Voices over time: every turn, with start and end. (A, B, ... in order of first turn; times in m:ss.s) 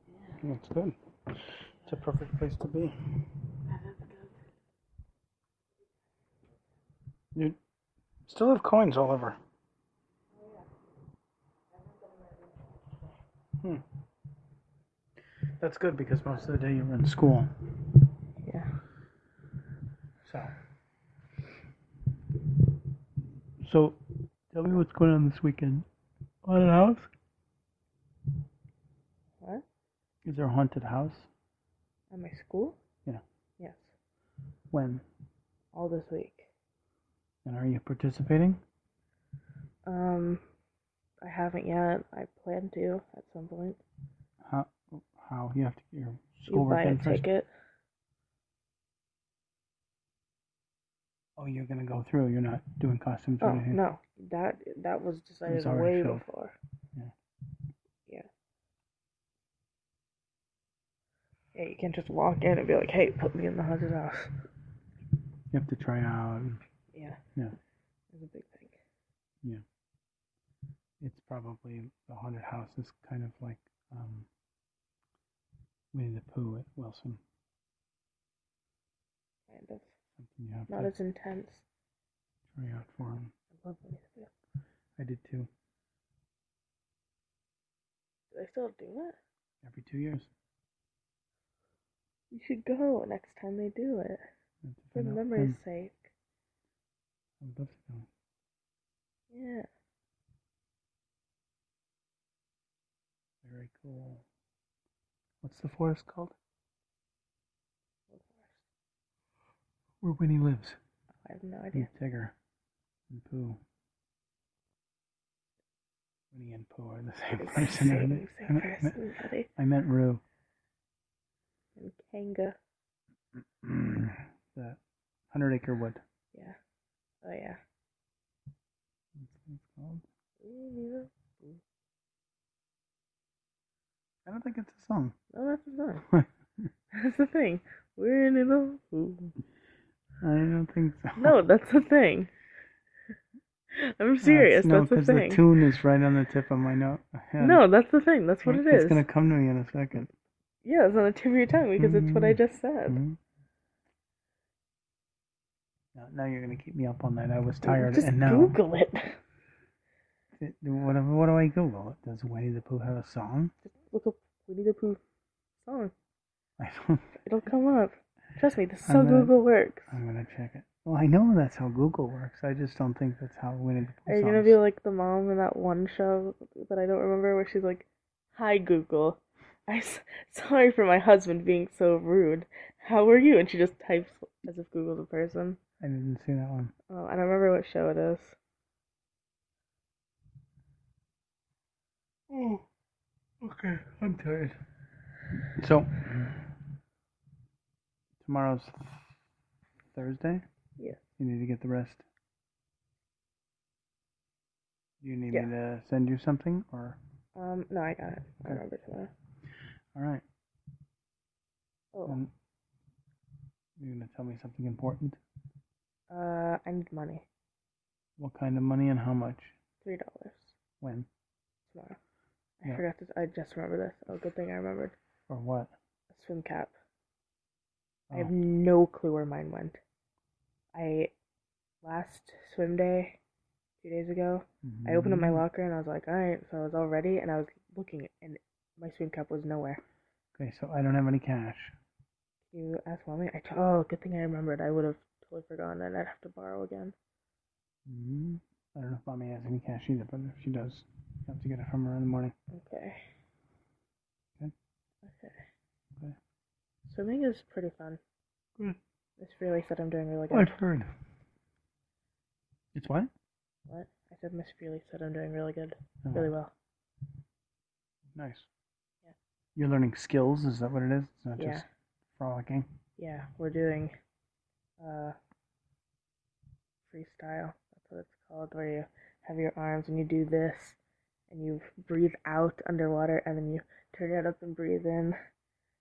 0:00.4-0:01.0 A
0:01.8-0:03.0 A
0:03.7-0:04.3 B
0:08.2-0:09.4 A
0:11.7-0:13.0 B
0:15.6-0:17.5 A
0:18.4-0:18.7 B
0:20.2-0:20.5 A
0:23.6-0:24.0 A
0:24.5-0:25.8 A
0:26.4-0:27.1 A
0:30.2-0:31.3 A
0:32.1-0:32.8 B
0:33.6-0:33.9 B
0:34.7-0:35.0 A
0:35.7-0:36.5 B
0:37.4-0:38.6 A
0:39.8-0:40.4 B
0:41.2-0:43.8 B
0:44.4-0:47.2 A
0:46.5-0:47.5 B
0:51.4-0:53.8 A
0:53.4-0:56.6 B
0:55.4-0:56.2 A
1:01.5-1:04.3 B
1:05.5-1:06.6 A
1:06.9-1:07.2 B
1:08.1-1:08.8 B
1:11.0-1:14.3 A
1:15.9-1:17.2 A
1:19.5-1:19.9 B
1:20.2-1:20.9 A
1:20.7-1:21.6 B
1:22.5-1:23.3 A
1:23.6-1:24.3 B
1:25.0-1:25.5 A
1:28.3-1:29.2 B
1:29.6-1:30.3 A
1:32.3-1:34.2 B
1:34.6-1:35.6 A
1:34.9-1:36.1 B
1:37.4-1:38.1 A
1:39.3-1:39.7 B
1:43.4-1:44.2 A
1:45.4-1:46.3 A
1:48.1-1:48.6 B
1:50.0-1:50.8 A
1:51.2-1:51.9 B
1:51.7-1:52.3 A
1:53.1-1:53.6 A
1:56.3-1:59.0 A
1:57.4-1:59.5 B
1:59.6-2:00.2 A
2:01.8-2:02.6 B
2:03.4-2:04.8 A
2:05.3-2:06.0 A
2:07.2-2:07.6 B
2:09.2-2:10.0 A
2:10.4-2:11.6 B
2:14.2-2:15.2 A
2:15.3-2:16.0 B
2:16.1-2:16.7 A
2:16.9-2:19.3 B
2:20.2-2:21.4 A
2:21.2-2:22.3 B
2:23.7-2:25.4 B
2:24.2-2:27.6 A
2:27.4-2:29.0 B
2:28.4-2:30.1 A
2:30.6-2:33.0 B
2:31.8-2:33.2 A
2:35.9-2:38.6 A
2:37.6-2:39.2 B
2:40.4-2:43.5 A
2:43.7-2:45.0 B
2:45.6-2:45.9 B
2:46.6-2:47.1 A
2:47.2-2:49.9 B
2:48.8-2:49.3 A
2:49.9-2:54.6 A
2:54.1-3:05.6 B
3:05.8-3:06.7 A
3:06.9-3:08.4 B
3:12.3-3:12.6 A
3:13.4-3:14.6 A
3:15.5-3:16.4 A
3:18.2-3:19.1 A
3:19.9-3:20.4 A
3:21.2-3:22.0 A
3:25.0-3:27.0 A
3:27.4-3:29.1 B
3:29.9-3:30.2 A
3:31.9-3:32.2 B
3:33.8-3:35.2 A
3:36.1-3:37.2 B
3:38.2-3:39.5 A
3:39.8-3:40.6 B
3:40.8-3:41.1 A
3:41.7-3:42.0 B
3:42.6-3:45.0 B
3:45.3-3:45.7 A
3:46.1-3:46.7 B
3:48.1-3:49.8 B
3:50.7-3:51.1 B
3:51.8-3:53.2 B
3:53.8-3:59.8 B
3:54.6-3:55.4 A
4:00.3-4:01.7 A
4:02.5-4:06.9 B
4:07.8-4:12.3 A
4:12.5-4:13.1 B
4:15.0-4:15.4 B
4:16.8-4:18.0 B
4:19.2-4:20.6 B
4:20.3-4:20.9 A
4:22.7-4:23.1 A
4:23.7-4:26.5 B
4:26.0-4:26.3 A
4:28.1-4:28.5 A
4:29.6-4:31.6 A
4:31.4-4:31.6 B
4:32.2-4:32.7 A
4:33.0-4:33.9 B
4:34.8-4:35.2 B
4:36.8-4:40.8 B
4:41.3-4:45.2 B